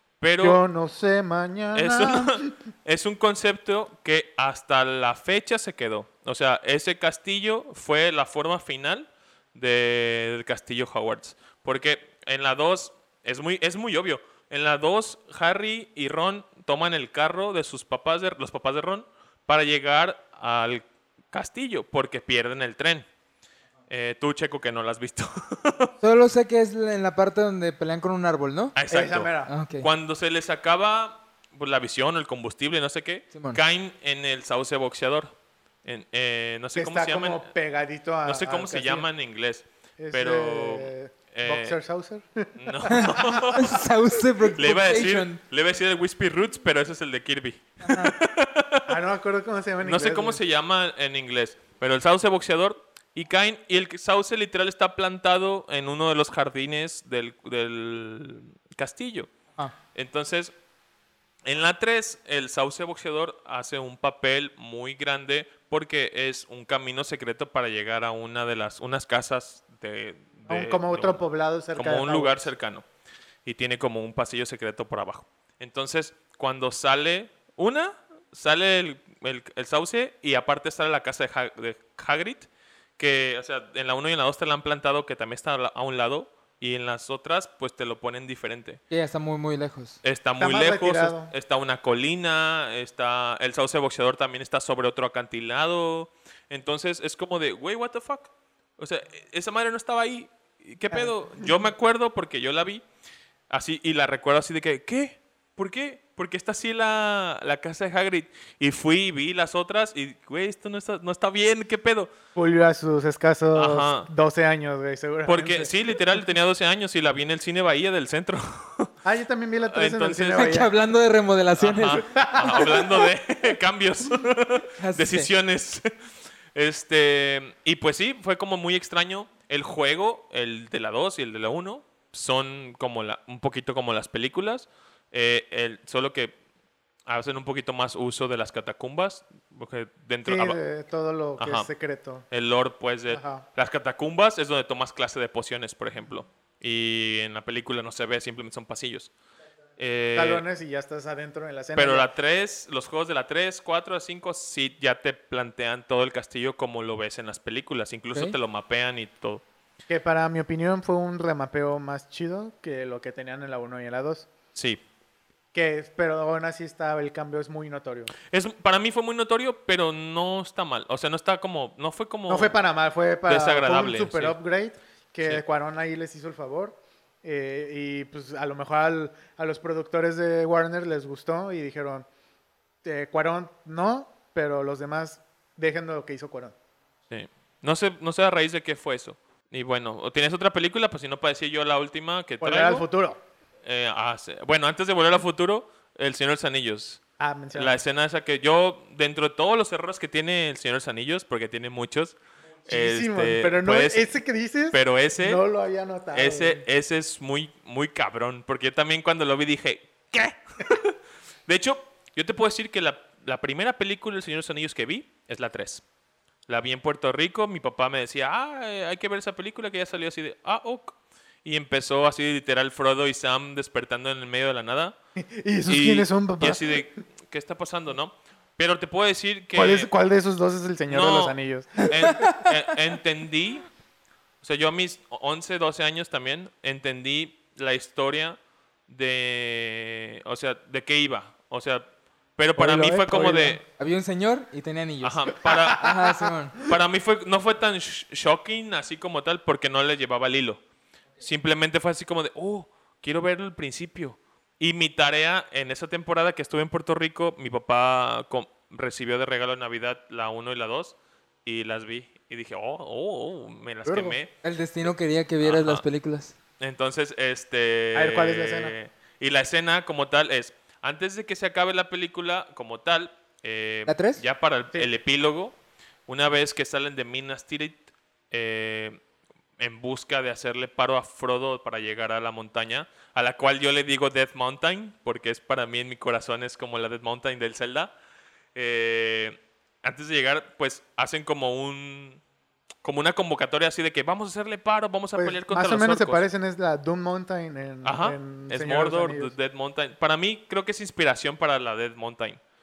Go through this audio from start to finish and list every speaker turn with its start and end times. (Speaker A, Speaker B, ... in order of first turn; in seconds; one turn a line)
Speaker A: 0.2-0.6
Speaker B: 0.4-2.5
Speaker A: 1.7-23.1
Speaker A: 23.9-25.9
Speaker C: 26.0-28.7
Speaker A: 28.8-35.3
Speaker B: 28.9-29.5
Speaker C: 29.5-29.9
Speaker C: 33.3-33.6
Speaker A: 35.9-37.5
Speaker B: 36.7-39.1
Speaker A: 38.2-41.8
Speaker B: 40.0-43.6
Speaker A: 42.6-43.8
Speaker C: 42.9-45.4
Speaker A: 44.5-49.0
Speaker C: 47.8-48.1
Speaker B: 48.9-50.4
Speaker A: 49.8-59.3
Speaker A: 59.9-60.5
Speaker A: 61.5-71.2
Speaker B: 70.5-72.5
Speaker A: 71.8-72.8
Speaker A: 73.5-82.5
Speaker A: 83.0-88.8
Speaker C: 88.9-90.0
Speaker A: 90.0-102.8
Speaker B: 90.4-91.3
Speaker B: 100.9-101.5
Speaker A: 103.5-112.1
Speaker B: 112.4-115.7
Speaker A: 113.5-114.1
Speaker A: 115.3-118.9
Speaker B: 119.0-120.7
Speaker A: 119.7-120.7
Speaker C: 120.3-122.1
Speaker A: 121.6-125.9
Speaker B: 122.0-123.0
Speaker C: 124.8-125.3
Speaker A: 126.5-136.3
Speaker A: 137.1-140.6
Speaker B: 140.2-142.2
Speaker A: 141.4-141.7
Speaker A: 142.3-149.1
Speaker B: 143.1-143.4
Speaker A: 149.8-150.5
Speaker B: 150.2-152.1
Speaker A: 151.8-159.4
Speaker B: 159.9-164.3
Speaker A: 164.6-164.8
Speaker B: 165.5-168.1
Speaker A: 168.3-172.6
Speaker B: 172.3-182.1
Speaker A: 173.3-174.4
Speaker B: 182.8-186.6
Speaker A: 187.1-192.9
Speaker B: 192.4-193.2
Speaker A: 193.6-197.0
Speaker B: 197.2-197.8
Speaker A: 197.5-204.1
Speaker B: 202.7-206.6
Speaker A: 204.7-205.4
Speaker A: 206.1-211.0
Speaker A: 211.5-215.8
Speaker A: 216.5-225.0
Speaker B: 225.2-226.8
Speaker A: 225.7-229.9
Speaker B: 229.5-232.4
Speaker A: 230.9-233.7
Speaker C: 232.2-232.4
Speaker A: 234.4-243.6
Speaker C: 242.6-246.6
Speaker A: 245.0-250.6
Speaker A: 251.2-264.3
Speaker B: 263.9-264.2
Speaker C: 264.4-266.4
Speaker A: 265.4-265.8
Speaker A: 266.6-275.6
Speaker B: 267.9-268.8
Speaker C: 273.9-274.2
Speaker A: 276.1-279.0
Speaker A: 279.6-287.9
Speaker A: 288.6-292.2
Speaker A: 292.8-296.2
Speaker B: 295.2-299.4
Speaker A: 297.8-302.4